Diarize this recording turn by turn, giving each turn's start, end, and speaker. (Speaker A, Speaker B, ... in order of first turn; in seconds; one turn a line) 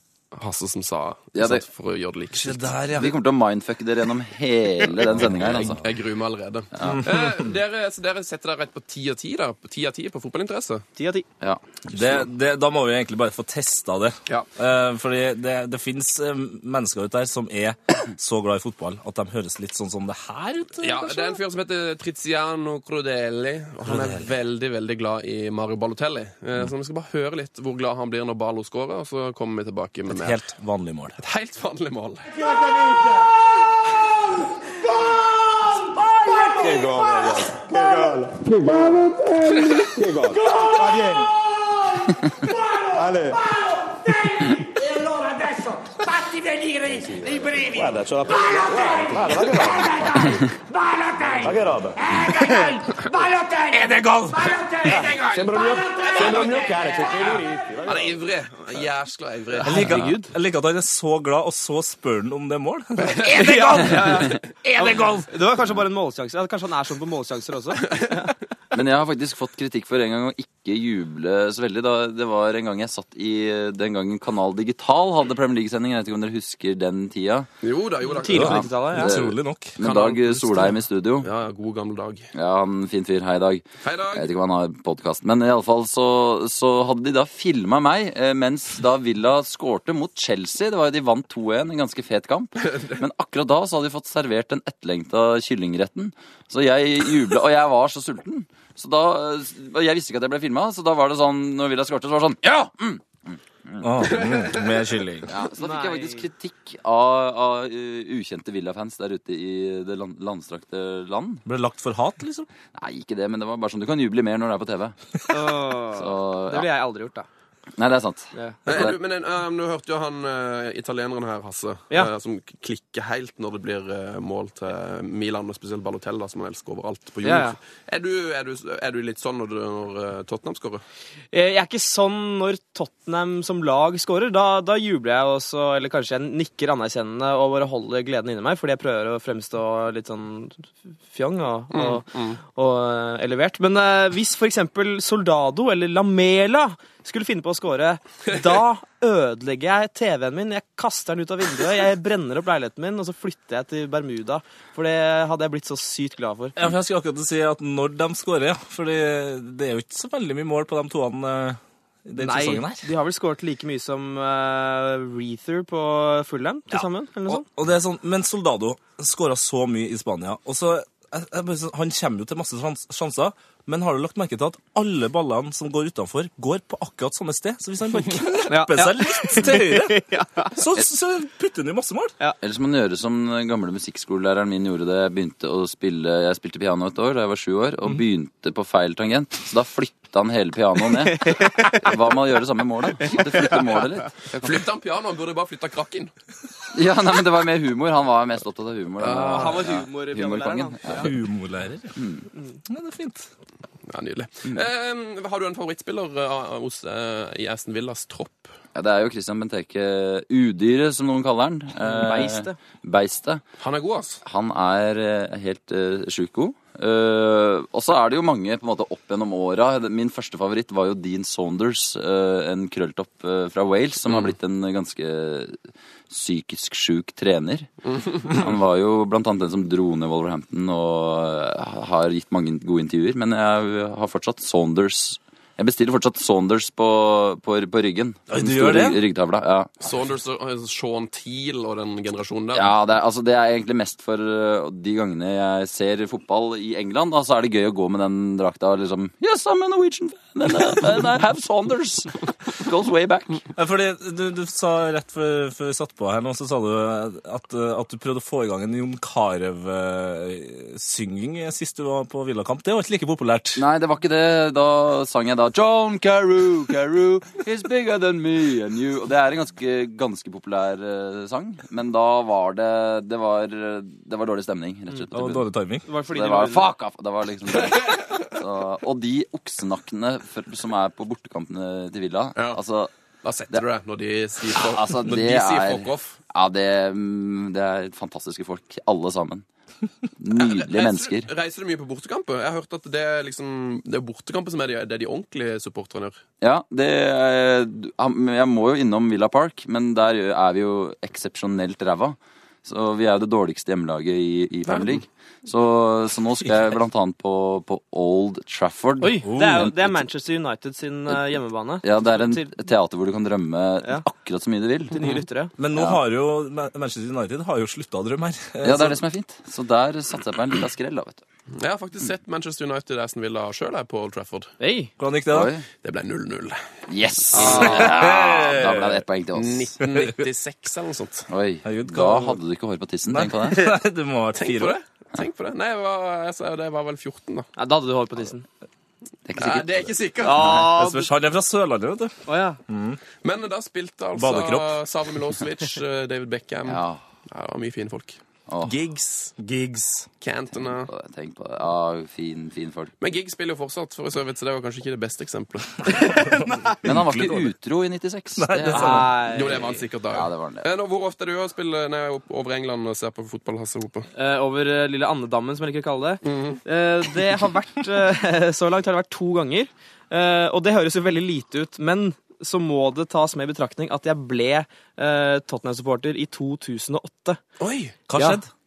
Speaker A: 0.3-2.7
Speaker B: 1.3-1.6
Speaker C: 2.4-3.1
Speaker B: 2.9-5.8
Speaker A: 5.1-10.8
Speaker B: 6.8-7.1
Speaker C: 6.8-7.5
Speaker D: 10.9-11.3
Speaker C: 11.9-21.4
Speaker A: 20.8-30.5
Speaker C: 23.8-24.2
Speaker C: 30.1-31.2
Speaker A: 31.2-32.4
Speaker E: 32.4-33.3
Speaker E: 35.4-53.6
Speaker D: 52.3-52.8
Speaker C: 53.7-54.5
Speaker E: 54.5-58.1
Speaker A: 56.2-56.4
Speaker A: 57.3-59.8
Speaker D: 59.6-60.3
Speaker C: 59.6-65.3
Speaker A: 63.0-63.5
Speaker D: 63.3-68.3
Speaker B: 68.7-77.5
Speaker A: 77.6-78.6
Speaker D: 78.2-79.1
Speaker C: 78.3-79.8
Speaker B: 78.3-81.3
Speaker A: 79.8-82.3
Speaker B: 82.3-104.2
Speaker A: 83.8-84.3
Speaker A: 92.6-93.0
Speaker C: 103.8-105.3
Speaker A: 104.1-105.0
Speaker B: 105.2-111.4
Speaker D: 105.5-106.3
Speaker C: 111.5-112.5
Speaker B: 112.7-115.0
Speaker D: 115.3-117.3
Speaker B: 115.9-116.7
Speaker B: 117.8-119.0
Speaker A: 118.7-130.8
Speaker D: 127.2-127.5
Speaker D: 131.3-156.6
Speaker A: 141.7-142.4
Speaker C: 156.6-162.9
Speaker D: 162.2-167.4
Speaker C: 166.7-182.1
Speaker D: 178.5-180.6
Speaker B: 182.4-194.6
Speaker D: 191.1-191.9
Speaker D: 193.1-193.5
Speaker A: 194.4-196.1
Speaker B: 196.7-201.1
Speaker D: 199.0-201.1
Speaker A: 199.0-199.6
Speaker C: 201.0-201.9
Speaker B: 201.9-202.3
Speaker C: 202.7-203.3
Speaker A: 203.9-208.5
Speaker B: 208.7-213.4
Speaker D: 211.8-212.6
Speaker A: 213.6-214.2
Speaker B: 214.2-239.7
Speaker A: 227.9-228.2
Speaker C: 238.3-239.0
Speaker A: 239.8-242.7
Speaker B: 242.5-253.4
Speaker C: 253.6-263.6
Speaker B: 263.5-275.5
Speaker C: 275.1-275.9
Speaker D: 275.8-276.7
Speaker B: 276.1-282.9
Speaker A: 283.2-286.2
Speaker B: 284.5-289.4
Speaker B: 290.2-291.3
Speaker A: 290.3-296.2
Speaker B: 296.4-309.9
Speaker A: 304.6-305.0
Speaker D: 309.0-312.5
Speaker C: 309.2-309.7
Speaker B: 311.8-315.0
Speaker D: 314.9-315.5
Speaker C: 315.6-319.0
Speaker B: 315.7-316.0
Speaker B: 318.6-321.2
Speaker A: 321.5-324.5
Speaker D: 324.6-324.9
Speaker C: 325.0-325.5
Speaker B: 325.3-325.6
Speaker A: 325.8-326.6
Speaker B: 326.9-329.7
Speaker A: 327.3-327.9
Speaker C: 327.5-329.0
Speaker A: 329.3-331.3
Speaker C: 329.9-330.2
Speaker B: 331.3-333.7
Speaker C: 331.6-332.4
Speaker C: 333.1-334.8
Speaker A: 334.3-337.5
Speaker D: 337.6-338.4
Speaker B: 339.2-340.4
Speaker A: 339.4-340.5
Speaker D: 340.2-341.1
Speaker C: 340.4-342.1
Speaker D: 342.2-342.6
Speaker C: 342.7-343.0
Speaker A: 343.2-349.3
Speaker C: 344.1-344.8
Speaker B: 346.6-347.0
Speaker B: 348.5-348.7
Speaker C: 349.4-350.1
Speaker A: 350.2-350.9
Speaker B: 350.6-352.9
Speaker A: 353.0-356.1
Speaker C: 356.0-357.5
Speaker D: 356.1-356.6
Speaker B: 356.8-360.7
Speaker C: 358.4-359.1
Speaker D: 358.7-359.6
Speaker A: 359.3-364.1
Speaker D: 364.1-377.4
Speaker A: 366.2-366.6
Speaker A: 377.6-377.9
Speaker C: 378.1-378.5
Speaker D: 378.1-378.4